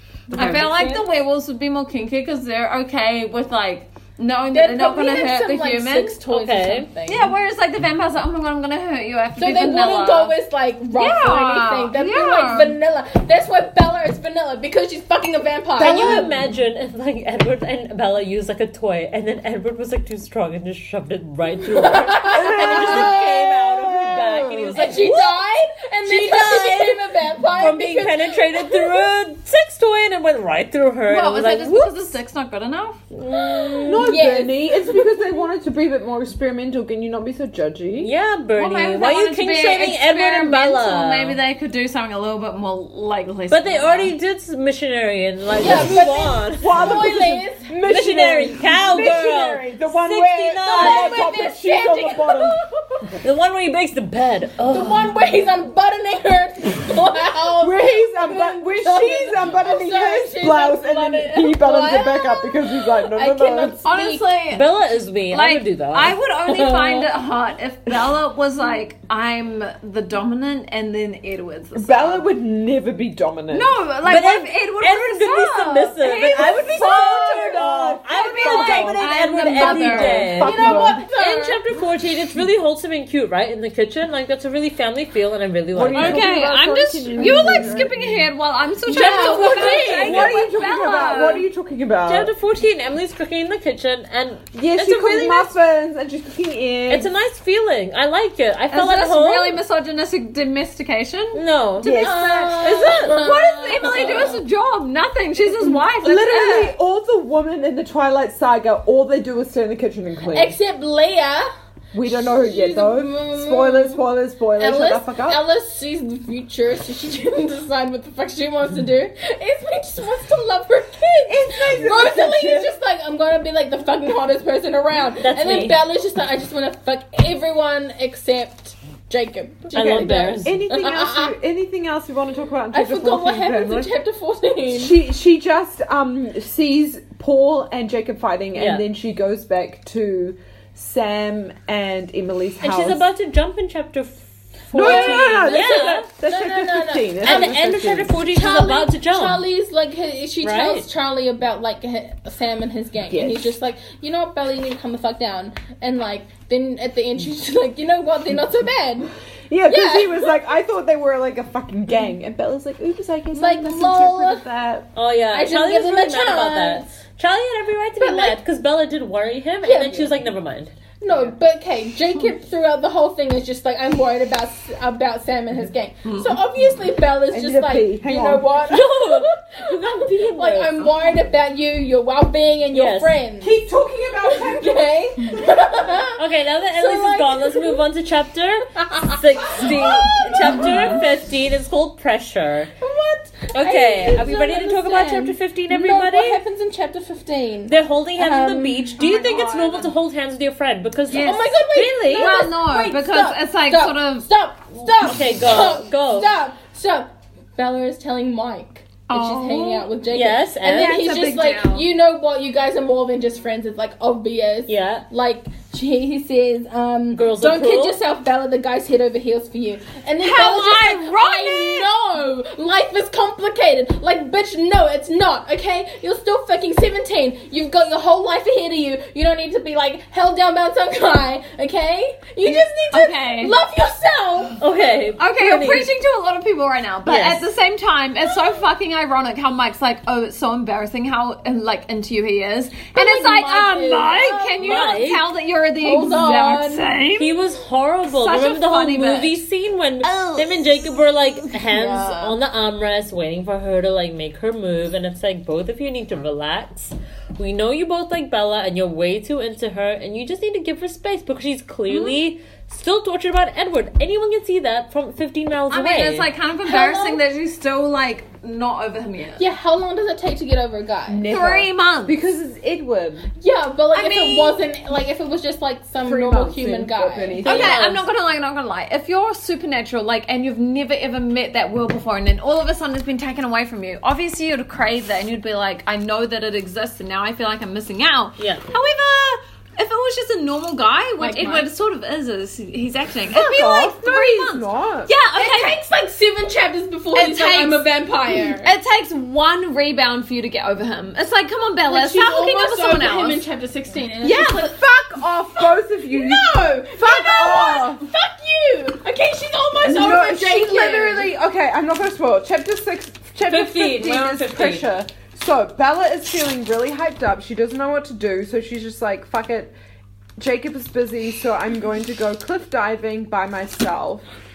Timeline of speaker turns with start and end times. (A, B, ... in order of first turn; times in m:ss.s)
0:00.3-0:01.0 A
0:00.3-0:06.2 B
0:00.4-0:00.6 C
0:04.5-0:07.3 A
0:06.3-0:06.9 C
0:07.0-0:10.3 B
0:09.4-0:16.3 A
0:10.9-0:12.8 B
0:15.8-0:25.4 C
0:21.7-0:23.5 A
0:22.3-0:24.8 D
0:24.7-0:29.1 A
0:26.0-0:31.9 C
0:31.0-0:33.0 B
0:33.1-0:35.3 A
0:33.8-0:38.1 D
0:38.0-0:41.4 C
0:38.6-0:44.1 B
0:43.5-0:47.1 C
0:45.6-0:47.7 A
0:45.6-0:52.6 D
0:47.8-0:51.3 C
0:50.6-0:53.1 A
0:53.2-0:55.2 C
0:54.7-1:04.3 A
0:57.6-1:03.8 D
1:03.8-1:04.7 B
1:04.5-1:07.1 C
1:05.3-1:12.3 B
1:11.7-1:13.8 D
1:13.5-1:20.4 B
1:14.0-1:26.3 C
1:16.7-1:21.0 D
1:20.4-1:21.6 A
1:25.7-1:28.2 D
1:25.9-1:31.4 B
1:28.9-1:30.2 A
1:28.9-1:30.3 C
1:30.0-1:32.3 D
1:32.0-1:35.5 C
1:34.5-1:37.1 D
1:36.9-1:39.6 C
1:38.7-1:41.4 B
1:41.3-1:43.3 C
1:41.8-1:42.8 D
1:41.8-1:44.4 A
1:42.4-1:46.7 B
1:43.9-1:44.2 C
1:45.6-1:50.6 D
1:50.3-1:51.5 A
1:51.9-1:55.4 D
1:52.0-1:54.0 A
1:54.6-2:11.3 A
2:01.3-2:02.7 D
2:05.2-2:05.8 C
2:09.7-2:10.6 C
2:09.7-2:13.9 D
2:12.7-2:15.0 A
2:14.7-2:23.0 D
2:18.5-2:18.8 C
2:22.6-2:26.1 C
2:24.7-2:28.2 D
2:24.8-2:27.6 A
2:27.2-2:29.4 C
2:28.3-2:39.1 A
2:30.4-2:30.9 C
2:33.1-2:33.5 D
2:39.5-2:44.9 D
2:39.7-2:40.3 A
2:43.3-2:44.4 A
2:44.9-2:51.3 C
2:45.3-2:46.9 A
2:48.0-2:48.4 A
2:49.6-2:50.1 A
2:51.0-3:03.6 A
2:56.0-2:56.4 B
2:57.3-2:58.6 D
2:58.6-3:01.1 C
3:02.7-3:03.2 C
3:03.4-3:04.9 D
3:04.2-3:06.2 A
3:06.1-3:12.7 C
3:06.7-3:07.8 A
3:08.9-3:11.0 A
3:12.8-3:19.8 A
3:13.5-3:16.4 C
3:17.7-3:22.3 C
3:19.5-3:19.8 B
3:21.1-3:24.3 B
3:21.1-3:54.6 A
3:24.9-3:26.3 C
3:29.1-3:29.9 B
3:30.1-3:31.0 C
3:30.7-3:31.8 B
3:34.7-3:35.0 C
3:37.1-3:38.0 C
3:40.2-3:41.9 B
3:52.9-3:53.5 B
3:54.6-3:55.9 C
3:55.2-4:07.3 B
3:57.0-3:57.4 C
4:02.9-4:04.8 A
4:04.6-4:05.3 C
4:05.8-4:06.9 A
4:07.2-4:26.3 C
4:08.1-4:09.4 B
4:10.0-4:10.8 B
4:11.6-4:12.3 B
4:21.9-4:22.1 B
4:25.7-4:29.4 B
4:26.6-4:27.2 A
4:29.4-4:31.3 A
4:31.1-4:33.3 D
4:31.3-4:32.2 B
4:33.4-4:37.7 A
4:33.9-4:34.6 B
4:36.0-4:37.8 D
4:37.4-4:55.8 B
4:37.4-4:38.0 C
4:48.4-4:48.6 C
4:51.2-4:51.7 A
4:53.3-4:55.1 D
4:55.3-4:58.7 A
4:57.1-5:03.4 B
5:01.8-5:04.8 A
5:04.2-5:04.7 B
5:04.3-5:08.0 D
5:05.6-5:11.3 A
5:09.8-5:19.7 D
5:13.4-5:14.9 C
5:20.4-5:24.2 D